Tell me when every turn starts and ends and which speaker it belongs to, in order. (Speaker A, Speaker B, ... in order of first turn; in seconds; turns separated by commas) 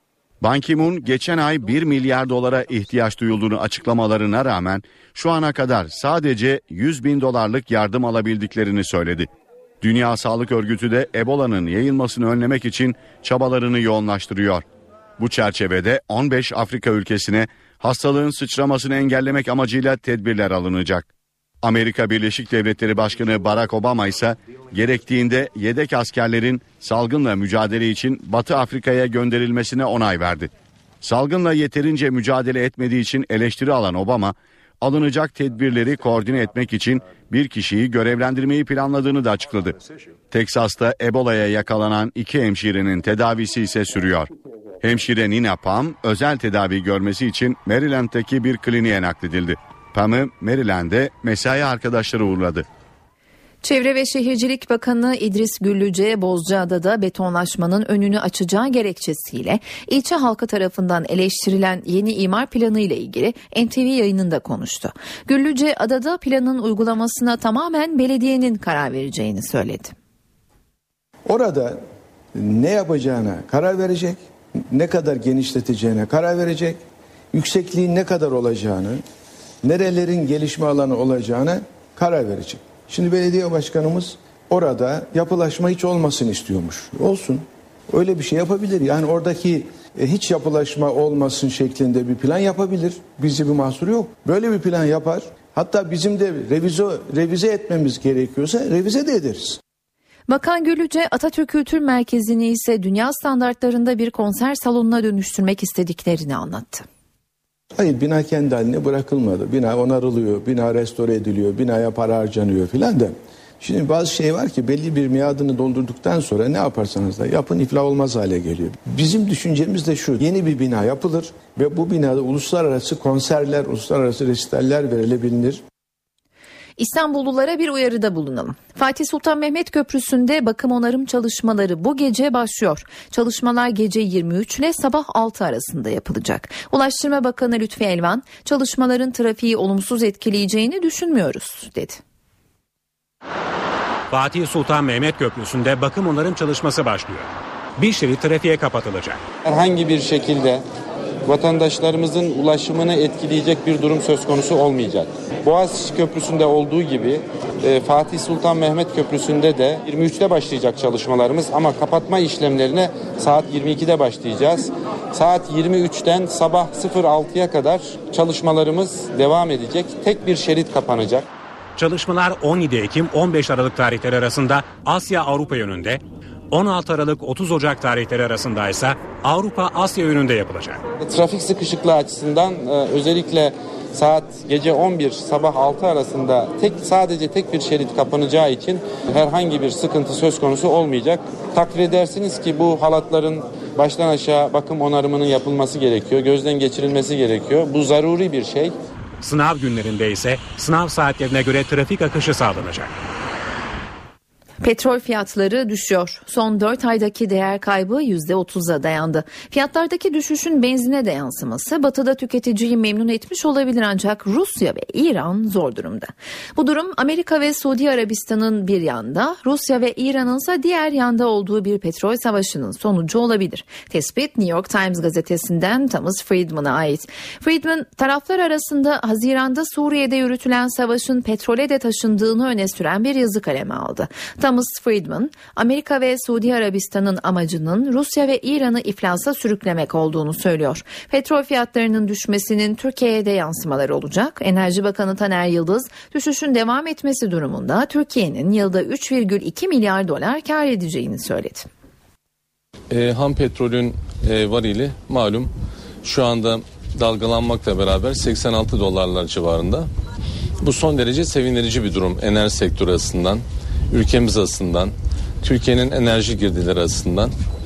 Speaker A: 0.4-9.3, Speaker A: 9.8-14.6, Speaker A: 15.2-21.1, Speaker A: 21.6-30.5, Speaker A: 31.0-39.8, Speaker A: 40.3-44.3, Speaker A: 44.8-52.7, Speaker B: 53.6-69.9, Speaker C: 71.3-71.8, Speaker C: 72.3-76.8, Speaker C: 77.3-79.0, Speaker C: 79.6-99.6, Speaker B: 100.3-106.9, Speaker C: 107.8-125.6, Speaker B: 126.8-142.0, Speaker D: 144.1-149.2, Speaker E: 149.4-150.6, Speaker E: 151.2-171.3, Speaker D: 171.8-176.0, Speaker D: 176.5-180.8, Speaker E: 181.0-198.8, Speaker D: 199.2-202.9, Speaker B: 204.6-251.7, Speaker F: 252.9-255.5, Speaker F: 256.0-259.9, Speaker F: 260.6-267.3